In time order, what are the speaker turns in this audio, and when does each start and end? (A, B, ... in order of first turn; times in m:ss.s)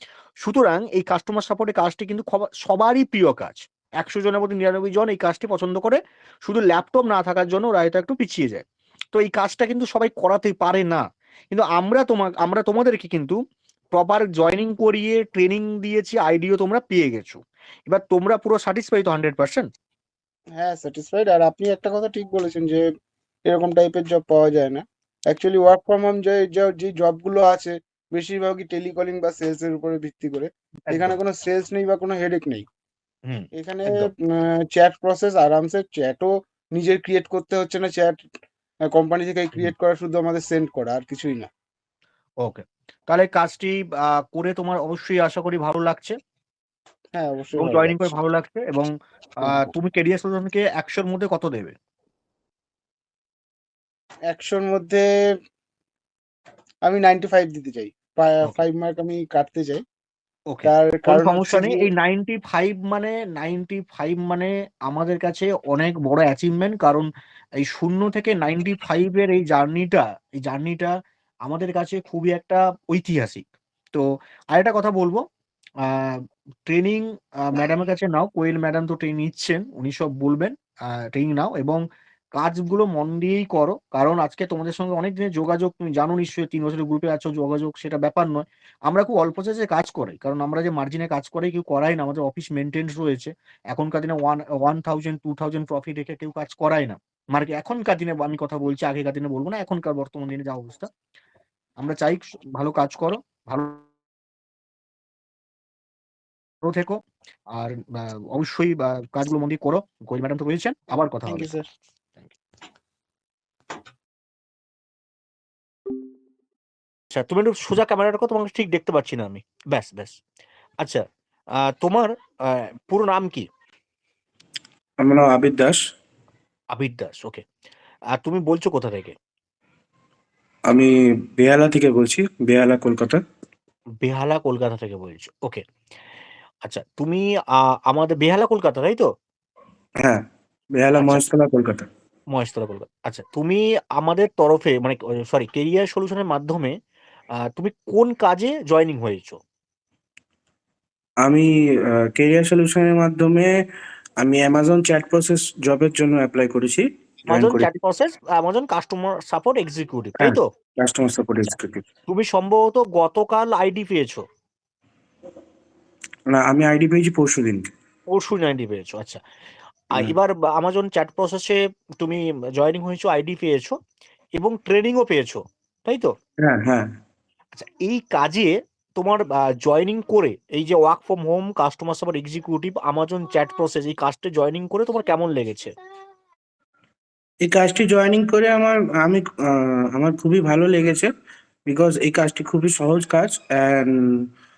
0:00.4-0:13.4 A
0:13.9-0:19.7 A
0:20.6-0:22.8 B
0:23.5-0:32.6 B
0:30.9-0:31.1 A
0:33.3-0:34.1 A
0:33.5-0:38.2 B
0:38.9-0:41.5 B
0:42.4-0:46.2 A
0:47.1-0:48.1 B
0:47.6-0:48.9 A
0:49.4-0:49.7 B
0:49.4-0:51.7 A
0:54.3-0:55.0 B
0:56.8-0:59.8 B
1:00.5-1:07.1 A
1:00.6-1:01.9 B
1:07.6-1:10.9 A
1:11.4-1:15.2 A
1:15.8-1:21.8 A
1:22.4-1:40.9 A
1:41.8-1:43.8 A
1:46.6-1:47.0 A
1:47.5-1:51.5 A
1:51.3-1:51.6 B
1:57.1-2:00.2 A
2:01.6-2:03.4 A
2:05.0-2:05.8 C
2:06.7-2:07.4 A
2:08.2-2:09.1 A
2:10.7-2:13.2 C
2:14.0-2:15.6 A
2:16.6-2:19.1 A
2:20.8-2:21.8 C
2:21.0-2:21.2 A
2:22.3-2:26.8 A
2:27.4-2:29.4 A
2:31.2-2:33.5 C
2:34.2-2:37.7 C
2:37.3-2:40.5 A
2:40.2-2:41.8 C
2:42.1-2:44.2 A
2:46.3-2:47.6 C
2:48.1-2:49.2 A
2:49.9-2:53.7 A
2:54.4-2:56.1 A
2:56.4-2:56.9 C
2:57.5-3:05.7 A
3:07.4-3:11.1 C
3:11.7-3:14.3 C